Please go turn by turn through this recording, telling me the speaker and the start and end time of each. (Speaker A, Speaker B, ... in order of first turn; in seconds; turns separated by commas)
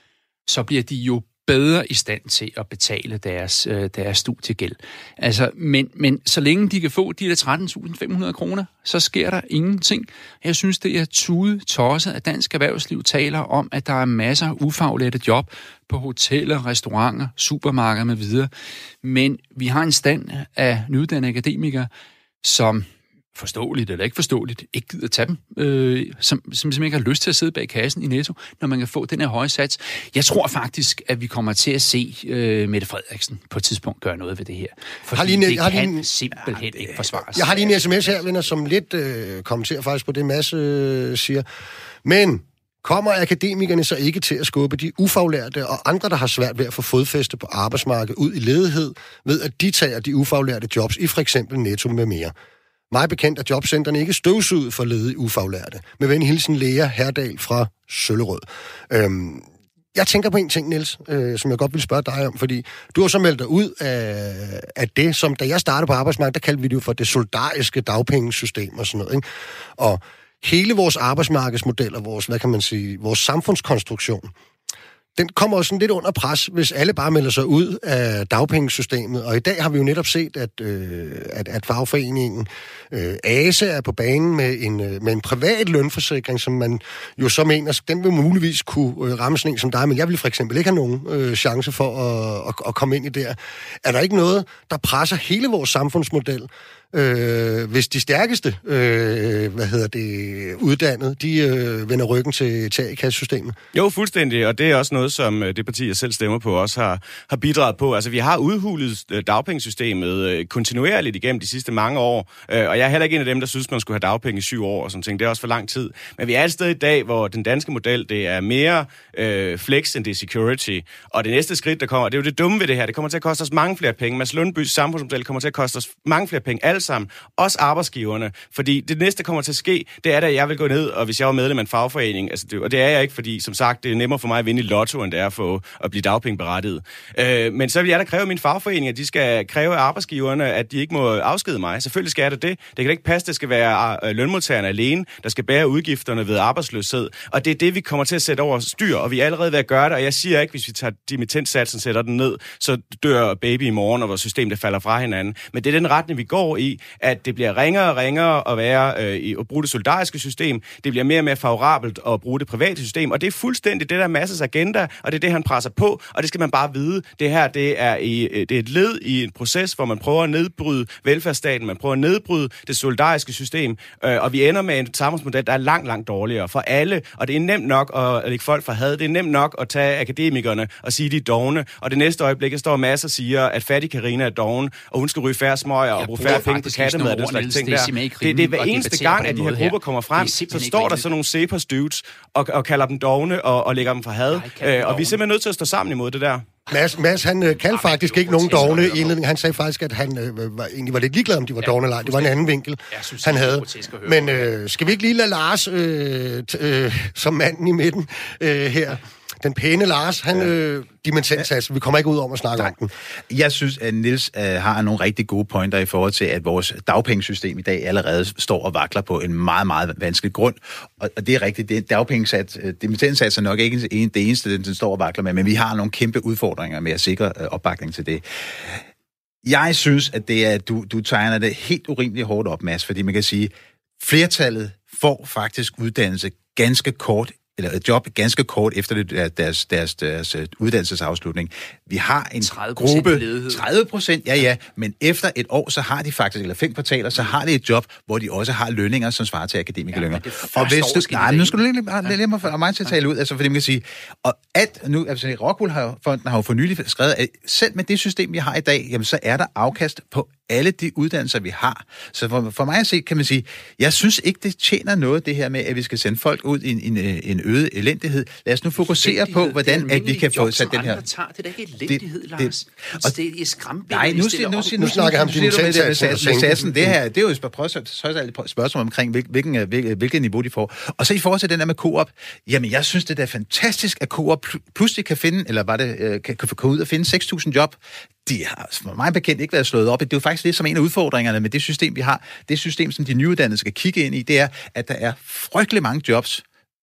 Speaker A: 0.5-18.5, Speaker A: 19.0-21.9, Speaker A: 22.4-37.5, Speaker B: 35.1-36.0, Speaker C: 37.3-37.8, Speaker B: 37.3-41.4, Speaker B: 42.0-52.3, Speaker B: 52.9-69.2, Speaker B: 69.8-74.3, Speaker B: 75.2-103.5, Speaker D: 103.7-196.4, Speaker A: 185.9-191.1, Speaker A: 194.3-195.2, Speaker B: 196.7-212.9, Speaker A: 197.7-199.1, Speaker A: 201.6-204.5, Speaker C: 213.3-228.8, Speaker C: 229.4-271.1, Speaker A: 242.4-243.7, Speaker A: 249.9-252.1, Speaker A: 268.9-274.9, Speaker C: 271.8-273.2, Speaker C: 273.9-296.4, Speaker B: 274.8-276.9